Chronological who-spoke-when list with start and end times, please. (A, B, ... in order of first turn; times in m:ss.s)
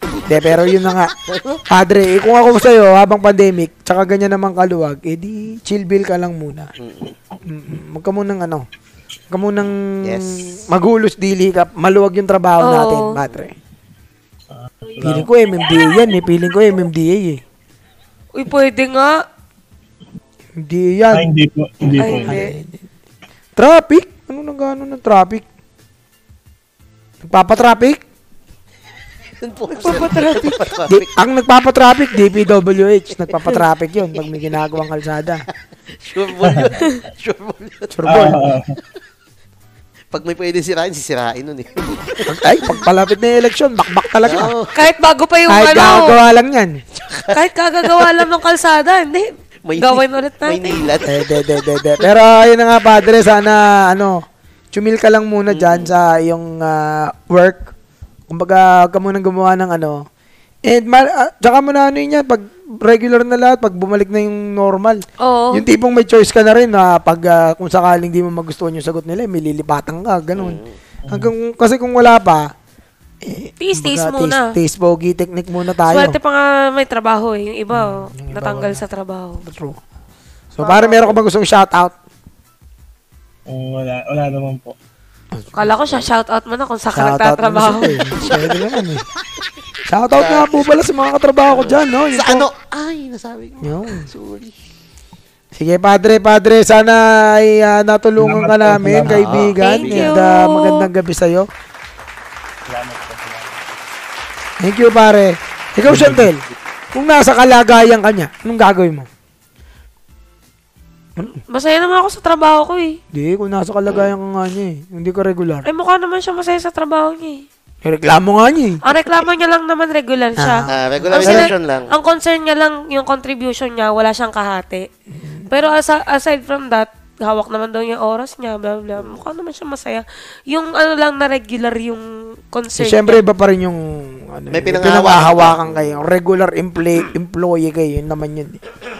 0:00.3-0:01.1 A
0:01.3-0:01.6 B
0:01.7-0:06.7 A
0:06.8-0:07.1 B
0:07.5-0:08.6 A
0:09.3-0:13.5 A
0:10.0-0:10.4 B
0:12.6-0:13.2 C
0:14.5-0:15.3 D
0:15.0-0:17.4 A
0:18.3-0:19.2 C
0:20.6-0:21.2 A
0:21.1-0:22.4 D
0:22.0-0:22.5 C
0:22.0-0:22.8 A
0:23.6-0:25.4 A
0:27.2-0:28.0 A
0:29.4-0:31.1 B
0:29.8-0:30.5 C
0:30.9-0:35.4 A
0:34.2-0:34.8 B
0:36.0-0:38.3 B
0:36.4-0:36.7 D
0:37.9-0:38.4 A
0:38.1-0:38.7 D
0:40.1-0:42.3 B
0:42.3-0:44.5 A
0:44.2-0:44.7 B
0:44.7-0:46.2 C
0:45.5-0:46.7 A
0:47.0-0:47.4 B
0:47.3-0:50.8 C
0:49.6-0:51.2 B
0:51.1-0:54.1 A
0:54.7-0:57.7 A
0:55.5-0:55.9 B
0:58.3-1:00.0 A
1:00.7-1:05.0 A
1:05.2-1:05.6 C
1:05.5-1:12.5 A
1:10.3-1:10.8 B
1:11.0-1:11.3 D
1:13.2-1:16.2 A
1:13.6-1:14.5 C
1:15.8-1:19.4 C
1:17.7-1:18.8 A
1:19.4-1:19.8 A
1:20.5-1:21.9 A
1:23.5-1:24.7 D
1:25.3-1:26.0 A
1:25.5-1:28.0 C
1:26.9-1:29.0 A
1:27.8-1:28.8 B
1:29.9-1:32.4 A
1:30.2-1:30.7 B
1:31.5-1:34.5 B
1:33.6-1:34.1 A
1:35.6-1:41.5 A
1:38.2-1:39.6 D
1:39.0-1:40.2 B
1:39.6-1:40.8 C
1:42.7-1:43.6 D
1:44.6-1:46.4 A
1:45.8-1:46.3 D
1:46.9-1:49.1 A
1:51.5-1:53.0 C
1:53.1-1:55.6 A
1:55.6-1:57.4 C
1:57.8-1:59.2 A
1:58.8-2:00.6 C
2:00.4-2:01.5 A
2:00.7-2:01.9 B
2:01.2-2:04.9 C
2:05.1-2:05.5 A
2:05.5-2:13.2 C
2:12.8-2:18.6 A
2:14.5-2:16.0 B